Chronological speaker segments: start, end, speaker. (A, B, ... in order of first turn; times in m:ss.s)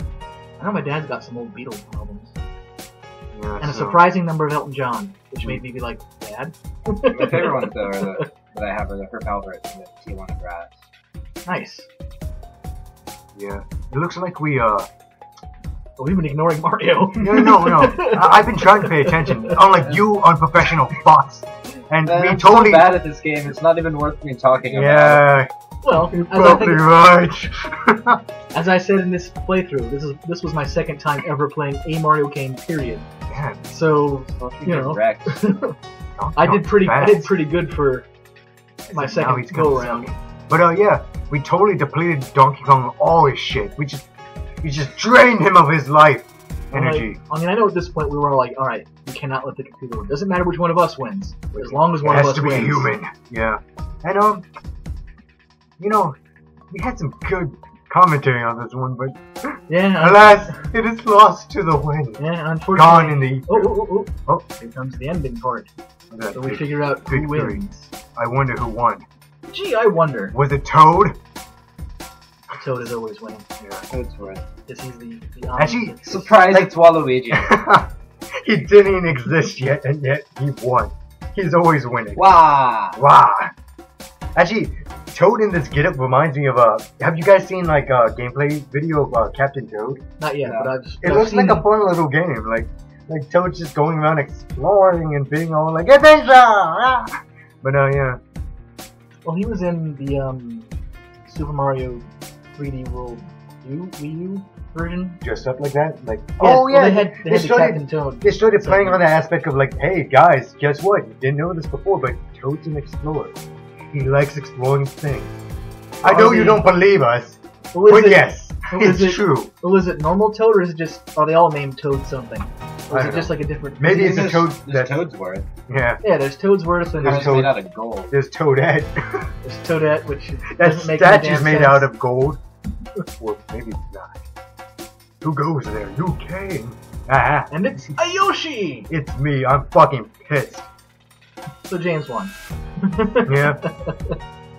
0:00.6-0:02.3 A
0:03.3-0:04.1 B
0:03.6-0:08.1 A
0:07.1-0:10.9 C
0:11.4-0:11.9 A
0:13.3-0:14.9 B
0:16.0-0:19.5 A
0:17.2-0:22.9 B
0:22.0-0:25.2 C
0:24.7-0:28.2 B
0:25.8-0:26.8 A
0:28.5-0:33.1 A
0:33.3-0:33.7 B
0:33.7-0:35.7 A
0:34.3-0:35.4 C
0:36.2-0:37.3 B
0:36.4-0:38.1 A
0:38.9-0:44.0 B
0:38.9-0:40.1 A
0:44.6-0:47.2 B
0:46.7-0:52.9 A
0:51.5-0:54.4 B
0:55.8-0:56.2 B
0:56.7-0:59.2 B
0:59.7-1:00.6 A
1:00.0-1:02.2 B
1:02.2-1:05.7 A
1:02.7-1:03.7 B
1:06.1-1:07.6 B
1:06.3-1:07.9 A
1:08.2-1:09.0 B
1:09.5-1:10.3 A
1:10.3-1:11.2 B
1:12.5-1:13.5 A
1:13.6-1:13.9 B
1:13.9-1:14.4 C
1:14.7-1:16.3 A
1:15.6-1:16.7 B
1:16.1-1:17.5 C
1:17.3-1:17.9 B
1:18.4-1:22.3 B
1:22.2-1:23.0 C
1:22.9-1:23.5 B
1:24.4-1:30.0 B
1:30.2-1:31.7 A
1:30.4-1:30.7 C
1:31.0-1:37.1 B
1:37.6-1:38.2 B
1:39.2-1:40.7 A
1:41.3-1:45.2 A
1:45.2-1:53.4 B
1:46.4-1:49.0 A
1:53.9-1:55.4 B
1:56.0-1:59.5 B
1:56.0-1:56.6 A
1:57.7-2:04.4 A
2:02.9-2:05.0 B
2:03.8-2:05.5 C
2:05.7-2:06.0 B
2:06.0-2:07.3 A
2:07.0-2:07.6 B
2:07.0-2:08.1 C
2:08.1-2:09.2 B
2:09.4-2:11.9 A
2:10.5-2:12.4 B
2:13.2-2:14.2 B
2:15.2-2:17.9 B
2:17.5-2:18.9 A
2:18.9-2:20.7 B
2:21.7-2:22.3 A
2:22.9-2:24.1 A
2:23.3-2:23.6 B